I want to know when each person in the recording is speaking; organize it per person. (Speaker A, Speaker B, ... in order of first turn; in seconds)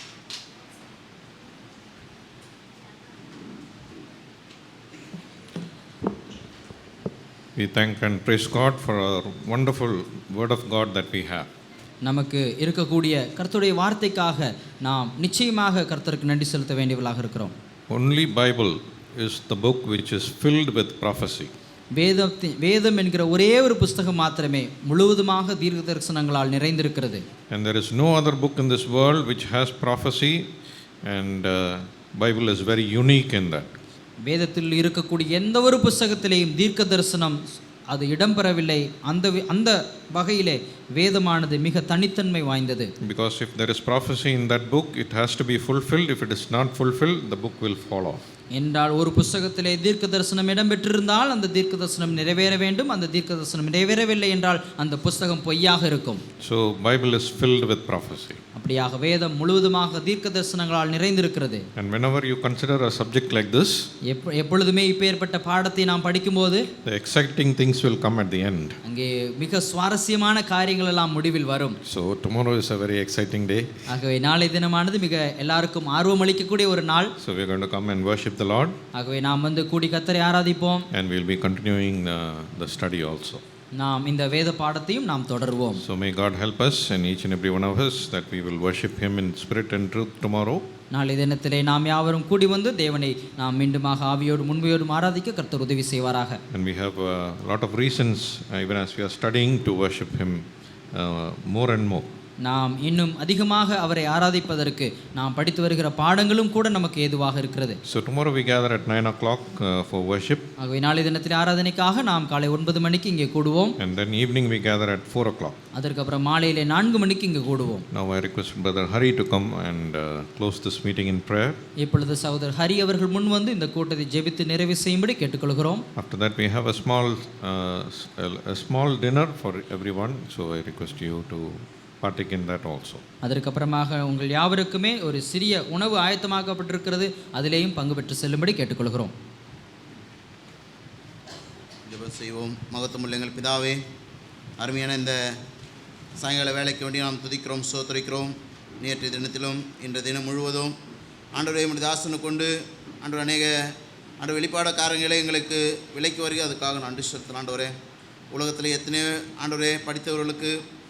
Speaker A: 7.6-11.5, 17.9-21.5, 27.5-30.5, 31.1-33.8, 43.0-48.2, 56.4-58.4, 61.8-63.9, 66.8-68.8, 71.8-73.7, 77.2-78.8, 80.9-83.4, 85.8-90.7, 96.5-102.1, 107.8-110.5, 113.8-115.6, 117.9-121.6, 126.0-133.0
Speaker B: 12.0-17.5, 21.9-27.2, 34.2-42.9, 48.5-56.2, 58.5-61.6, 64.1-66.7, 68.8-71.8, 73.9-77.1, 78.9-80.9, 83.8-85.8, 90.9-96.4, 102.4-107.8, 110.6-113.8, 115.7-117.8, 121.8-125.8, 133.2-139.1
Speaker C: 141.9-143.8, 144.6-145.2, 146.2-150.8, 151.3-157.7, 158.3-160.6